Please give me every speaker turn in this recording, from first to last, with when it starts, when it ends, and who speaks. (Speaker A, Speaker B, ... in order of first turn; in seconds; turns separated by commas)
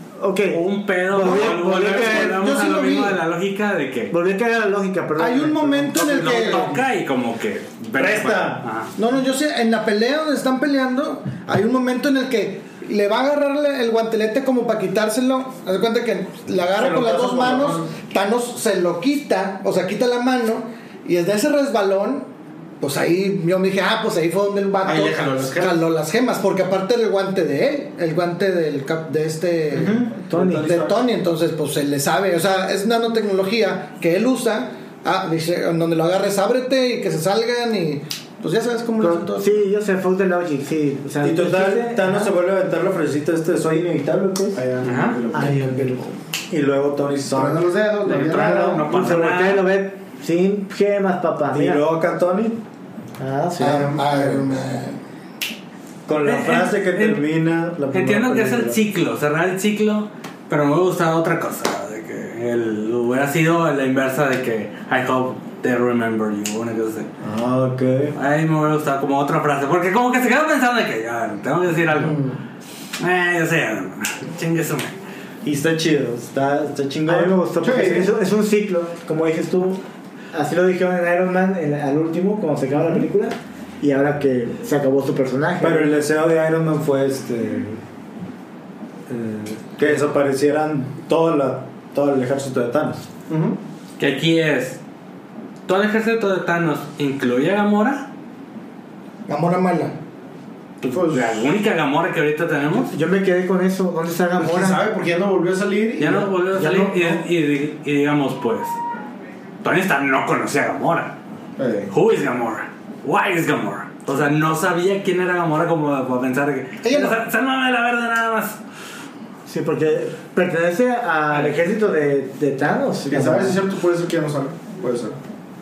Speaker A: 0.2-2.5, Speaker B: 0.5-4.1, Speaker C: 1.8-3.2, Speaker A: 4.1-6.6, Speaker C: 5.2-6.8, Speaker B: 5.9-8.9, Speaker D: 8.0-8.7, Speaker C: 9.0-22.3, Speaker D: 16.8-17.9, Speaker C: 22.8-30.0, Speaker E: 24.9-25.7, Speaker D: 29.7-31.0, Speaker A: 30.2-30.8, Speaker C: 30.6-39.6, Speaker A: 39.0-42.3, Speaker D: 41.2-44.6, Speaker E: 44.5-46.0, Speaker B: 44.8-45.2, Speaker A: 45.3-46.1, Speaker D: 46.5-47.6, Speaker E: 47.3-48.9, Speaker B: 48.0-49.7, Speaker A: 48.4-51.9, Speaker D: 51.5-52.6, Speaker A: 53.2-54.2, Speaker C: 53.6-55.0, Speaker E: 53.7-54.3, Speaker D: 56.1-58.8, Speaker B: 56.2-57.2, Speaker B: 57.9-67.1, Speaker D: 67.2-68.2, Speaker B: 68.2-72.2, Speaker C: 72.0-72.4, Speaker B: 73.0-75.0, Speaker D: 75.4-78.1, Speaker A: 77.1-85.9, Speaker E: 77.6-78.1, Speaker D: 85.6-87.8, Speaker D: 89.1-93.1, Speaker E: 93.3-93.6, Speaker B: 94.0-94.8, Speaker B: 95.7-98.1, Speaker C: 99.3-100.0, Speaker B: 100.8-102.9, Speaker E: 100.9-101.4, Speaker A: 102.9-104.8, Speaker E: 104.4-107.2, Speaker B: 106.0-108.8, Speaker B: 109.6-111.2, Speaker E: 111.6-111.9, Speaker B: 111.9-118.6, Speaker C: 116.8-117.2, Speaker A: 119.5-123.6, Speaker B: 121.3-121.6, Speaker E: 123.1-125.2